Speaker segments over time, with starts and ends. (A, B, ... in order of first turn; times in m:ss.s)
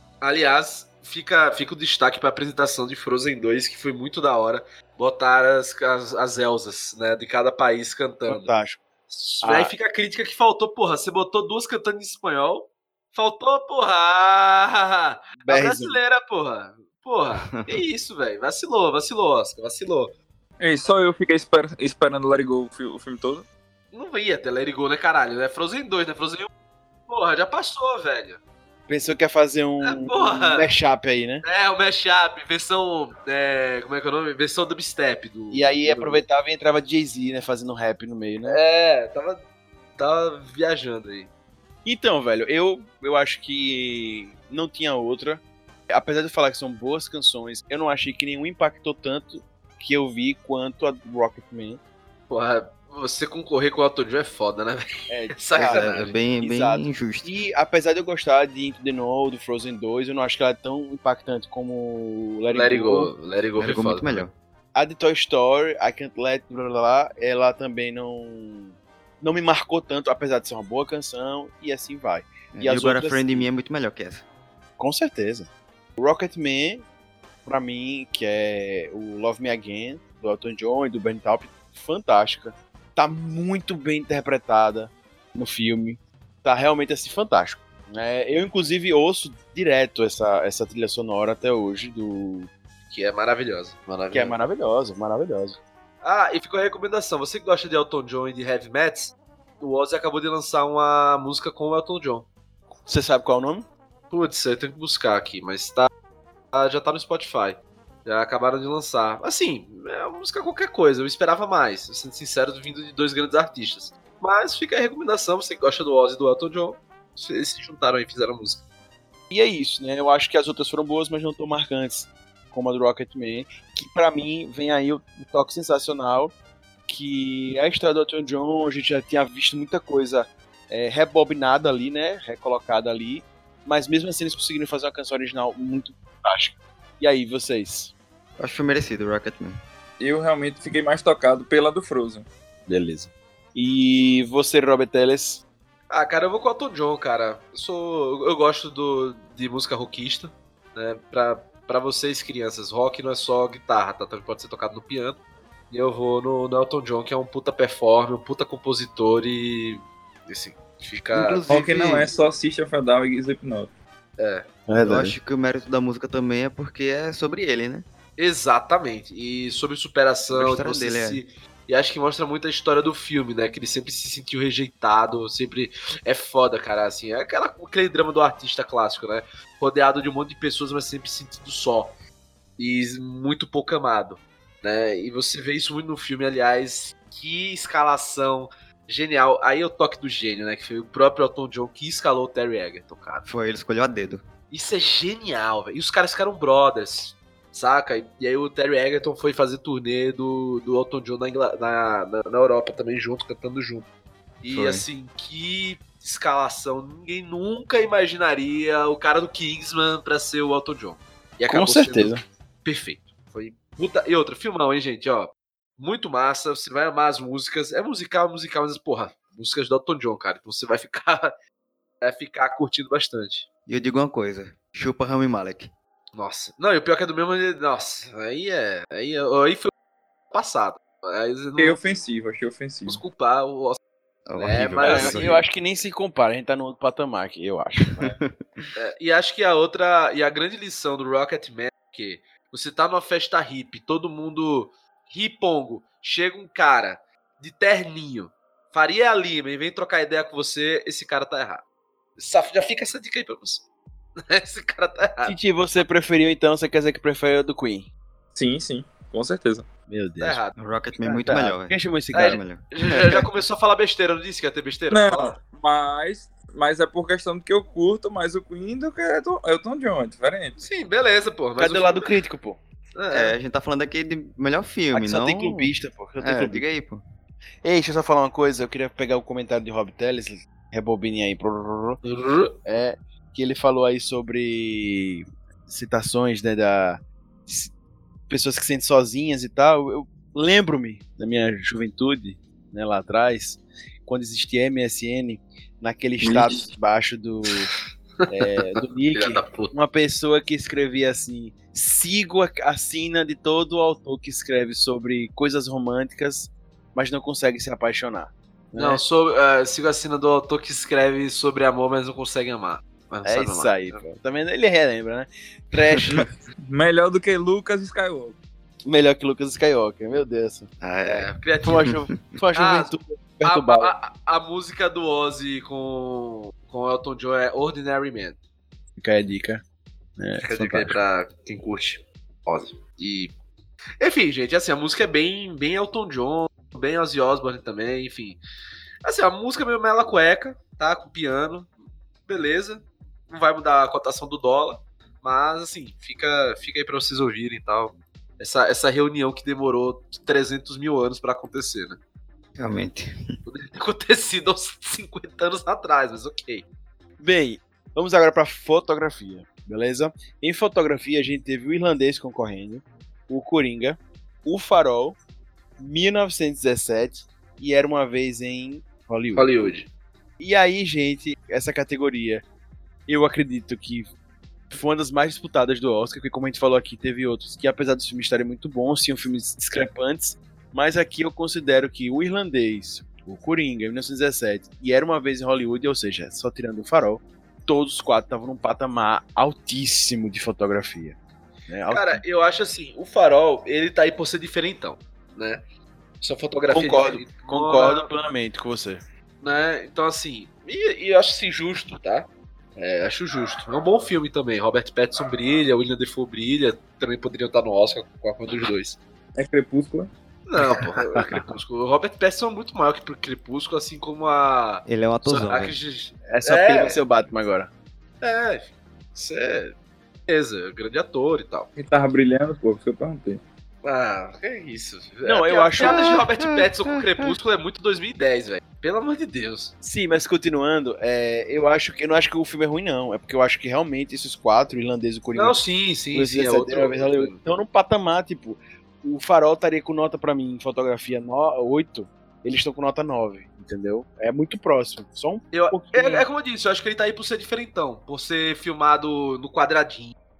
0:00.2-0:08.5 A
0:08.3-0:08.8 B
0:09.1-0:20.1 A
0:09.4-0:09.7 B
0:15.4-0:16.0 B
0:17.5-0:17.8 C
0:20.6-0:23.4 D
0:23.9-0:26.5 A
0:27.1-0:28.4 A
0:28.9-0:31.4 B
0:29.8-0:30.7 A
0:31.4-0:36.2 A
0:35.5-0:38.6 B
0:38.4-0:39.4 A
0:40.0-0:41.3 A
0:41.9-0:51.8 B
0:52.3-0:56.2 A
0:55.1-1:03.1 B
0:55.6-0:57.3 C
1:02.5-1:04.2 A
1:03.6-1:04.3 C
1:04.7-1:13.5 B
1:12.5-1:14.2 C
1:14.8-1:16.8 B
1:17.4-1:32.5 B
1:32.9-1:34.4 A
1:34.1-1:35.6 B
1:36.0-1:42.3 A
1:42.9-1:43.6 B
1:44.1-1:45.9 A
1:46.5-1:58.6 A
1:59.3-2:06.3 B
2:06.9-2:17.9 B
2:18.4-2:19.6 C
2:20.0-2:22.3 D
2:22.7-2:25.4 B
2:25.9-2:35.2 A
2:35.7-2:41.5 A
2:41.1-2:42.1 C
2:41.5-2:43.7 D
2:44.2-2:44.5 A
2:44.7-2:45.1 B
2:44.8-2:47.8 C
2:48.2-3:01.9 A
2:50.3-2:51.2 C
3:02.6-3:13.3 A
3:13.3-3:14.2 C
3:14.5-3:23.9 A
3:24.4-3:41.3 A
3:24.5-3:24.8 C
3:31.5-3:32.2 B
3:42.0-3:43.4 A
3:43.7-3:45.7 C
3:46.1-3:49.7 A
3:50.3-3:51.8 A
3:51.6-3:53.0 D
3:52.9-3:53.8 A
3:54.3-3:55.4 C
3:54.4-3:55.4 A
3:54.8-3:58.2 B
3:58.0-3:58.6 C
3:58.8-4:11.6 A
4:12.2-4:13.6 A
4:14.2-4:15.3 A
4:15.2-4:17.9 B
4:18.3-4:19.7 D
4:19.9-4:20.4 B
4:20.2-4:20.5 A
4:20.6-4:22.6 C
4:21.0-4:23.2 B
4:22.1-4:25.4 A
4:24.9-4:30.6 D
4:30.6-4:32.1 A
4:31.6-4:32.6 B
4:32.9-4:33.3 A
4:33.1-4:37.0 C
4:34.9-4:36.6 B
4:37.6-4:42.0 B
4:42.0-4:42.6 A
4:42.6-4:47.7 B
4:48.3-4:57.7 B
4:56.2-4:56.6 C
4:58.2-4:59.7 A
4:58.3-5:09.0 B
5:08.8-5:14.0 A
5:13.2-5:16.3 B
5:16.7-5:18.4 D
5:18.8-5:20.7 B
5:20.8-5:21.3 C
5:21.0-5:22.0 A
5:21.6-5:23.9 B
5:21.8-5:22.3 C
5:22.6-5:22.9 A
5:23.4-5:28.4 A
5:29.0-5:29.6 B
5:30.2-5:31.0 B
5:30.4-5:33.3 A
5:34.0-5:38.4 A
5:39.0-5:41.7 A
5:42.3-5:52.0 A
5:52.6-5:53.1 C
5:53.5-5:56.6 A
5:57.2-6:05.2 B
6:05.8-6:09.7 B
6:09.3-6:09.9 A
6:10.4-6:12.4 B
6:13.1-6:14.1 B
6:14.7-6:31.2 B
6:31.7-6:32.2 B
6:31.9-6:35.6 A
6:36.2-6:38.1 A
6:36.7-6:39.0 B
6:39.4-6:49.0 A
6:49.4-6:50.1 D
6:50.5-6:57.0 A
6:51.0-6:51.4 B
6:54.9-6:55.7 C
6:56.3-6:57.7 B
6:58.2-6:59.7 A
7:00.3-7:01.7 A
7:01.7-7:03.4 D
7:03.8-7:09.7 A
7:05.3-7:06.2 B
7:05.8-7:07.4 C
7:09.8-7:15.6 B
7:15.3-7:17.4 A
7:16.1-7:26.3 B
7:25.5-7:30.1 A